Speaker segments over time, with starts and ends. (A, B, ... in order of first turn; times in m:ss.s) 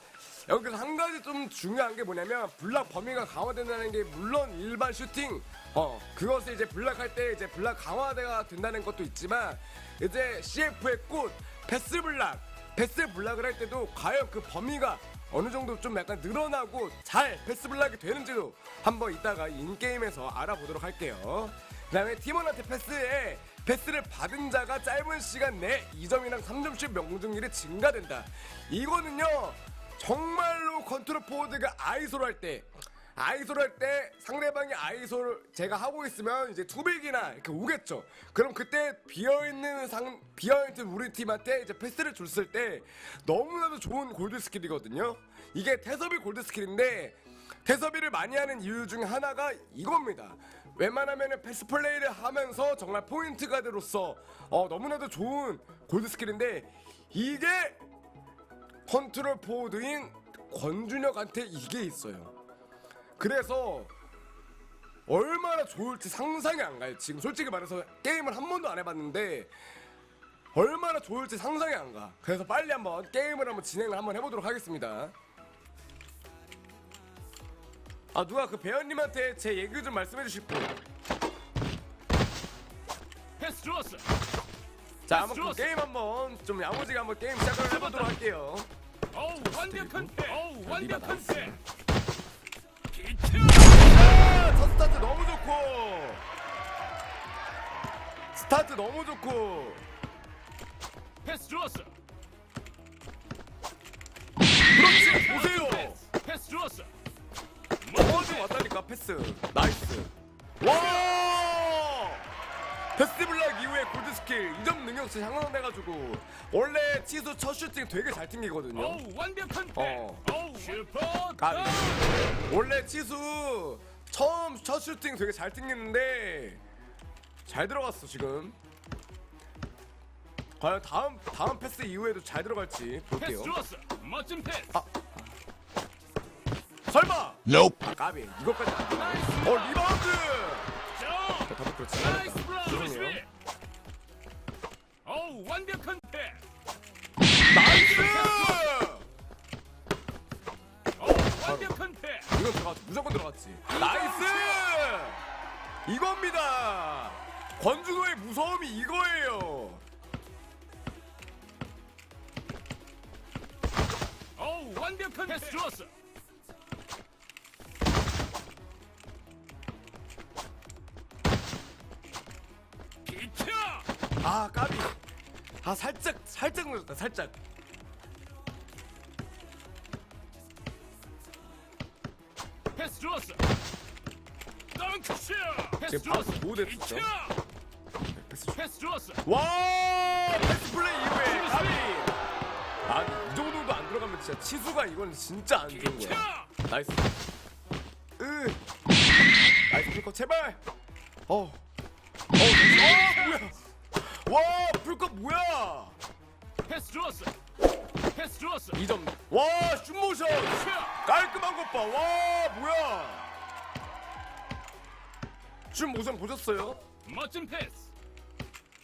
0:00.5-0:57.8 A
0:58.9-1:02.3 A
1:03.2-1:03.9 A
1:05.1-1:09.5 A
1:10.5-1:15.1 A
1:18.1-1:20.8 A
1:23.4-1:24.1 B
1:25.1-1:28.7 A
1:25.1-1:25.6 B
1:27.7-1:28.0 B
1:29.1-1:31.6 B
1:29.4-1:31.6 A
1:32.9-1:33.7 B
1:33.7-1:36.2 A
1:38.3-1:39.8 A
1:41.2-1:41.9 B
1:44.7-1:46.0 A
1:45.0-1:46.9 B
1:47.9-1:48.4 B
1:47.9-1:52.2 A
1:53.0-1:59.0 A
1:58.8-2:02.1 B
1:59.8-2:00.3 A
2:01.4-2:06.6 A
2:07.4-2:08.6 A
2:10.6-2:13.6 A
2:13.2-2:14.7 B
2:16.9-2:20.8 A
2:19.1-2:19.7 B
2:21.0-2:23.2 B
2:21.4-2:23.2 A
2:25.0-2:26.4 B
2:27.5-2:29.1 A
2:27.7-2:28.6 B
2:31.0-2:32.2 B
2:31.4-2:35.2 A
2:33.7-2:34.6 B
2:35.9-2:39.8 A
2:44.4-2:45.9 B
2:53.0-2:53.9 B
2:54.2-2:55.0 A
2:55.6-2:57.4 A
3:02.7-3:03.4 B
3:04.7-3:07.4 B
3:05.8-3:07.1 A
3:08.1-3:08.6 A
3:08.6-3:09.2 B
3:09.2-3:12.2 A
3:11.3-3:11.9 B
3:12.9-3:17.1 A
3:15.7-3:16.5 B
3:18.2-3:18.6 A
3:19.7-3:20.6 A
3:21.3-3:21.6 A
3:22.3-3:26.0 A
3:22.8-3:23.4 B
3:26.7-3:27.3 B
3:28.1-3:28.7 B
3:28.7-3:33.3 A
3:35.7-3:36.8 A
3:37.0-3:37.9 B